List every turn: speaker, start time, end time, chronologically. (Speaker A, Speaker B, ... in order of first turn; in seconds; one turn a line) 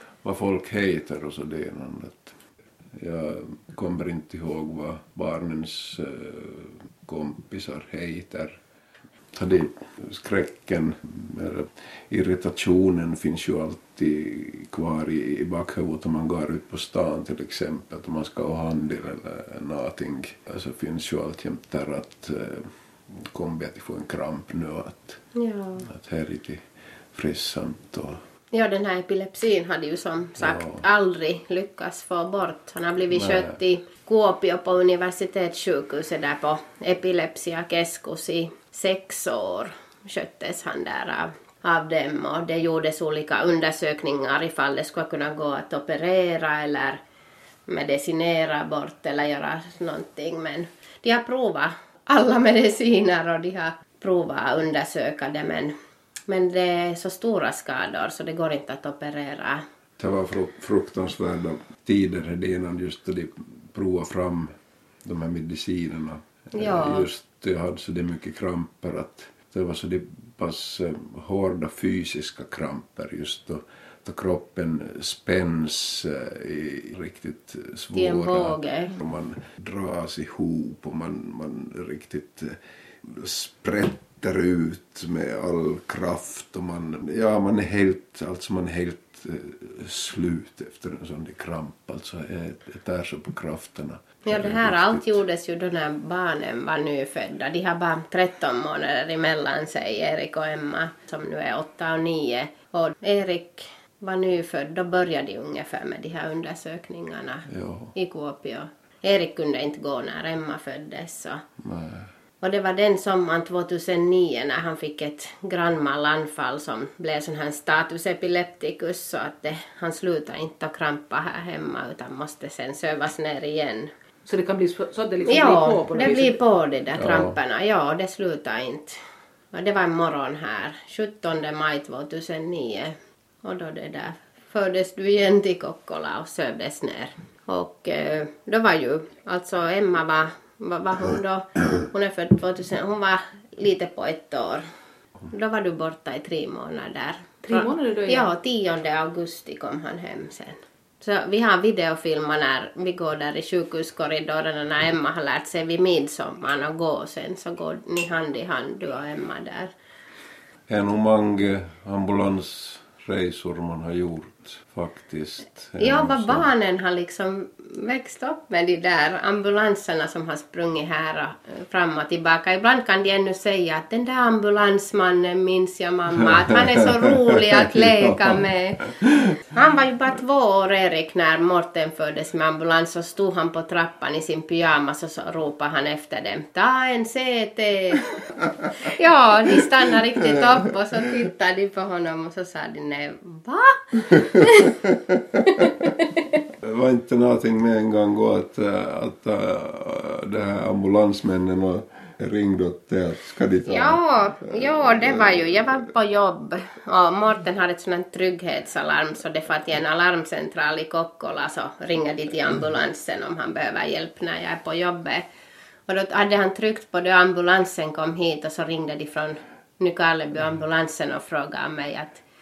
Speaker A: 0.2-2.4
Speaker A: 3.0-8.6
Speaker A: 9.3-25.2
Speaker B: 25.3-25.9
Speaker A: 25.8-28.2
Speaker B: 28.5-47.0
Speaker A: 30.4-30.8
Speaker A: 33.1-33.6
Speaker B: 47.7-55.7
Speaker B: 56.3-59.6
Speaker A: 60.0-64.5
Speaker A: 65.0-95.2
Speaker B: 66.5-67.1
Speaker B: 77.9-78.9
Speaker B: 94.2-111.4
Speaker A: 107.5-107.9
Speaker A: 111.6-112.1
Speaker B: 112.4-123.9
Speaker C: 124.2-126.4
Speaker B: 125.2-129.0
Speaker A: 127.0-127.3
Speaker B: 129.5-144.6
Speaker B: 145.3-159.7
Speaker C: 147.4-148.3
Speaker A: 160.7-166.5
Speaker B: 165.8-178.9
Speaker A: 176.3-178.4
Speaker A: 178.9-179.4
Speaker B: 179.4-188.2
Speaker B: 188.8-194.8
Speaker A: 194.6-195.6
Speaker B: 195.4-196.4
Speaker A: 196.6-205.7
Speaker B: 203.7-215.3
Speaker B: 215.9-222.2